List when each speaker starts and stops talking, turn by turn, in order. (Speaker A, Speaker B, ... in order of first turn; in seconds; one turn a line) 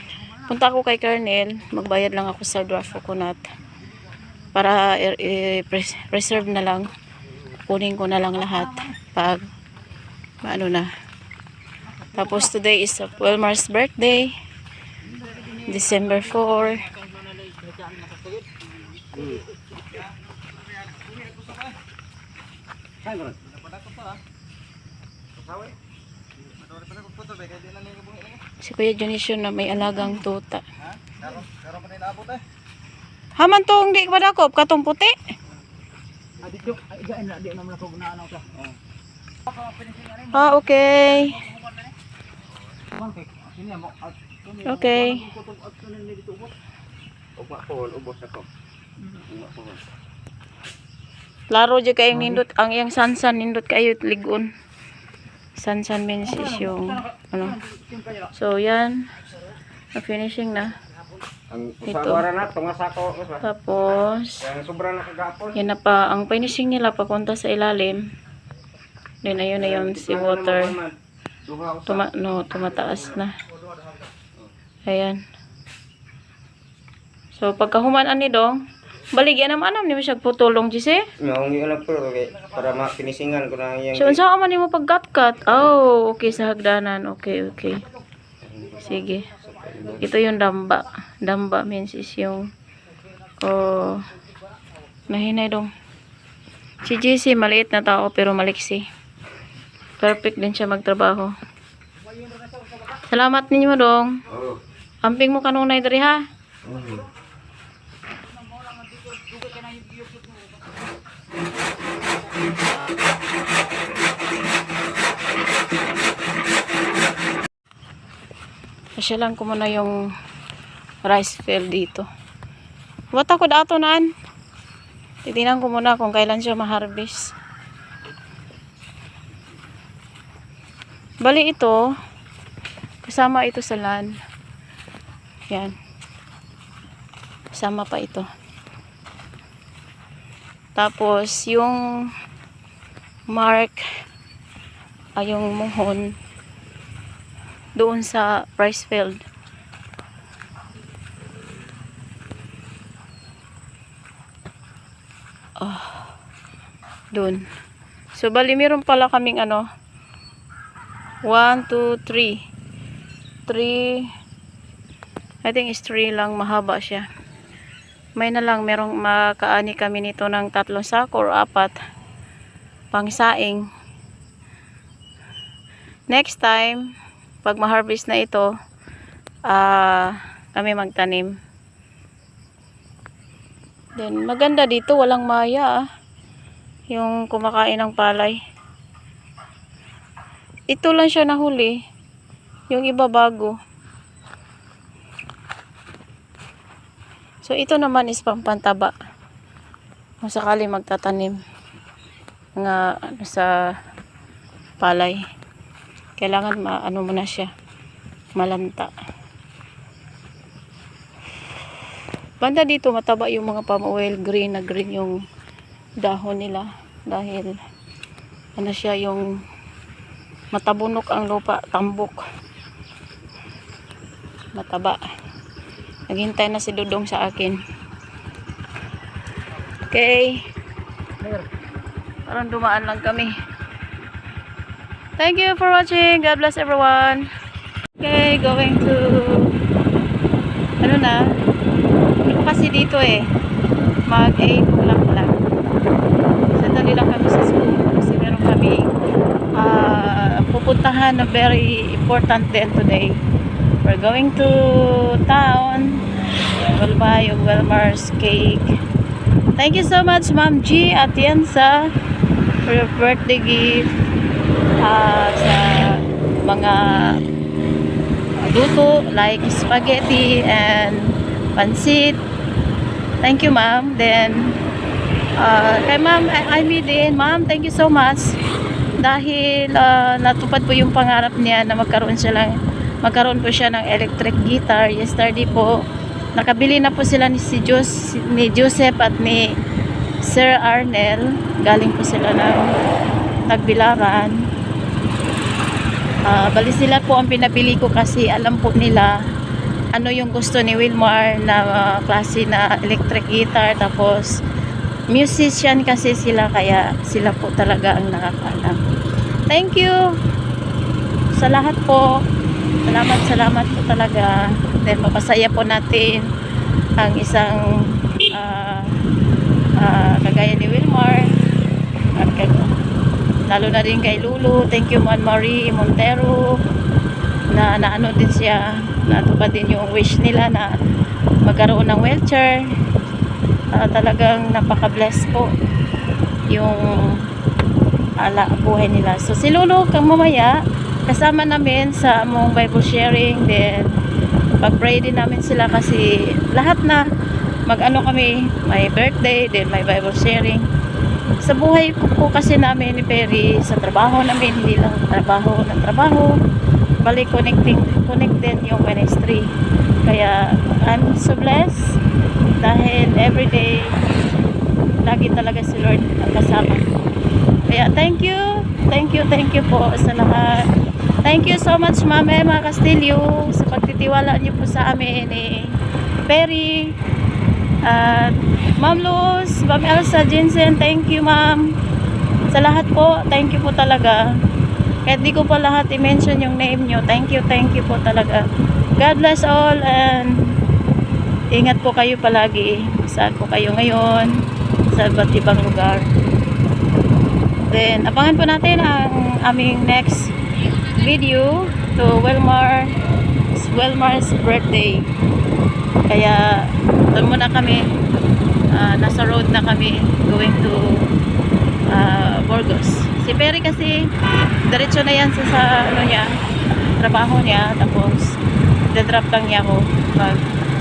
Speaker A: 0.4-3.5
Speaker A: 4.5-6.9
Speaker A: 7.7-9.4
Speaker A: 10.4-10.9
Speaker A: 12.1-14.3
Speaker B: 15.1-15.6
Speaker A: 15.6-16.9
Speaker B: 16.7-18.5
Speaker B: 19.1-19.7
Speaker C: 20.9-21.7
Speaker C: 23.1-24.1
Speaker C: 25.4-25.7
Speaker C: 26.4-28.4
Speaker A: 28.6-30.6
Speaker C: 30.9-32.4
Speaker A: 33.4-35.1
Speaker B: 36.4-38.5
Speaker B: 39.5-40.3
Speaker A: 40.3-41.4
Speaker B: 43.0-46.5
Speaker A: 44.6-45.3
Speaker C: 47.4-48.5
Speaker C: 49.3-49.8
Speaker A: 51.5-54.5
Speaker A: 55.6-57.6
Speaker B: 57.7-58.2
Speaker A: 58.3-59.0
Speaker A: 59.9-60.7
Speaker C: 61.5-63.4
Speaker A: 61.8-62.2
Speaker A: 63.4-64.5
Speaker C: 64.4-65.6
Speaker A: 65.5-68.0
Speaker A: 69.2-70.8
Speaker C: 69.5-72.0
Speaker A: 71.9-73.3
Speaker A: 74.8-75.2
Speaker A: 77.3-78.6
Speaker A: 79.1-81.1
Speaker C: 81.2-84.2
Speaker A: 83.9-87.8
Speaker C: 88.4-90.0
Speaker A: 88.7-89.3
Speaker A: 89.8-92.5
Speaker A: 93.4-94.0
Speaker A: 95.1-95.7
Speaker A: 96.8-98.8
Speaker A: 100.0-101.3
Speaker A: 103.0-104.2
Speaker C: 104.3-104.6
Speaker A: 105.0-106.2
Speaker C: 106.6-107.0
Speaker B: 108.7-110.2
Speaker A: 119.0-120.0
Speaker A: 121.0-122.0
Speaker A: 123.1-124.1
Speaker A: 125.2-127.3
Speaker A: 131.2-131.8
Speaker A: 133.0-134.1
Speaker A: 137.5-138.3
Speaker A: 140.8-141.8
Speaker A: 143.3-143.8
Speaker A: 145.2-146.1
Speaker A: 147.8-149.2
Speaker A: 155.6-156.1
Speaker A: 157.1-157.4
Speaker A: 158.2-159.6
Speaker A: 161.3-162.4
Speaker A: 163.5-164.1
Speaker A: 165.4-167.1
Speaker A: 168.2-171.7
Speaker A: 172.9-173.6
Speaker A: 176.1-176.9
Speaker A: 177.4-178.5
Speaker A: 179.5-181.3
Speaker A: 184.0-185.8
Speaker A: 186.9-188.4
Speaker A: 190.7-191.8
Speaker A: 192.7-193.5
Speaker A: 197.4-198.9
Speaker A: 200.2-201.4
Speaker A: 202.6-203.5
Speaker A: 204.8-205.2
Speaker A: 206.2-207.5
Speaker A: 208.3-208.9
Speaker A: 212.4-215.2
Speaker A: 216.0-217.6
Speaker A: 218.6-219.2
Speaker A: 220.5-222.2
Speaker A: 224.6-225.0
Speaker A: 226.1-227.6
Speaker A: 229.9-230.4
Speaker A: 232.3-233.3
Speaker A: 235.2-237.3
Speaker A: 238.0-239.5
Speaker A: 240.8-241.2
Speaker A: 242.2-243.3
Speaker A: 244.1-245.3
Speaker A: 246.5-248.9
Speaker A: 249.6-253.2
Speaker A: 253.8-256.0
Speaker A: 256.6-258.7
Speaker A: 259.6-261.9
Speaker A: 262.6-263.9
Speaker A: 264.8-267.2
Speaker A: 268.4-272.2
Speaker A: 273.2-274.5
Speaker A: 275.4-278.3
Speaker A: 279.0-285.8
Speaker A: 286.3-289.5
Speaker A: 290.2-292.7
Speaker A: 293.5-294.4
Speaker A: 296.2-299.1
Speaker A: 299.9-304.4
Speaker A: 305.1-308.8
Speaker A: 309.5-310.1
Speaker A: 311.3-312.2
Speaker A: 312.9-316.3
Speaker A: 317.0-318.9
Speaker A: 319.8-321.3
Speaker A: 322.1-322.7
Speaker A: 323.5-326.5
Speaker A: 327.5-330.7
Speaker A: 331.4-332.6
Speaker A: 333.7-335.5
Speaker A: 336.5-337.2
Speaker A: 338.2-340.5
Speaker A: 341.1-343.9
Speaker A: 344.6-347.0
Speaker A: 347.7-350.6
Speaker A: 351.4-356.3
Speaker A: 357.0-359.5
Speaker A: 360.0-362.0
Speaker A: 362.6-363.9
Speaker A: 365.0-366.8
Speaker A: 367.7-370.7
Speaker A: 371.2-375.8
Speaker A: 376.3-376.9
Speaker A: 377.8-381.6
Speaker A: 382.5-384.2
Speaker A: 385.1-388.4
Speaker A: 389.0-390.5
Speaker A: 391.5-394.3
Speaker A: 394.9-396.1
Speaker A: 397.7-402.9
Speaker A: 403.5-405.1
Speaker A: 406.1-407.8
Speaker A: 408.7-410.8
Speaker A: 411.9-414.0
Speaker A: 414.7-416.3
Speaker A: 417.0-418.3
Speaker A: 418.9-420.4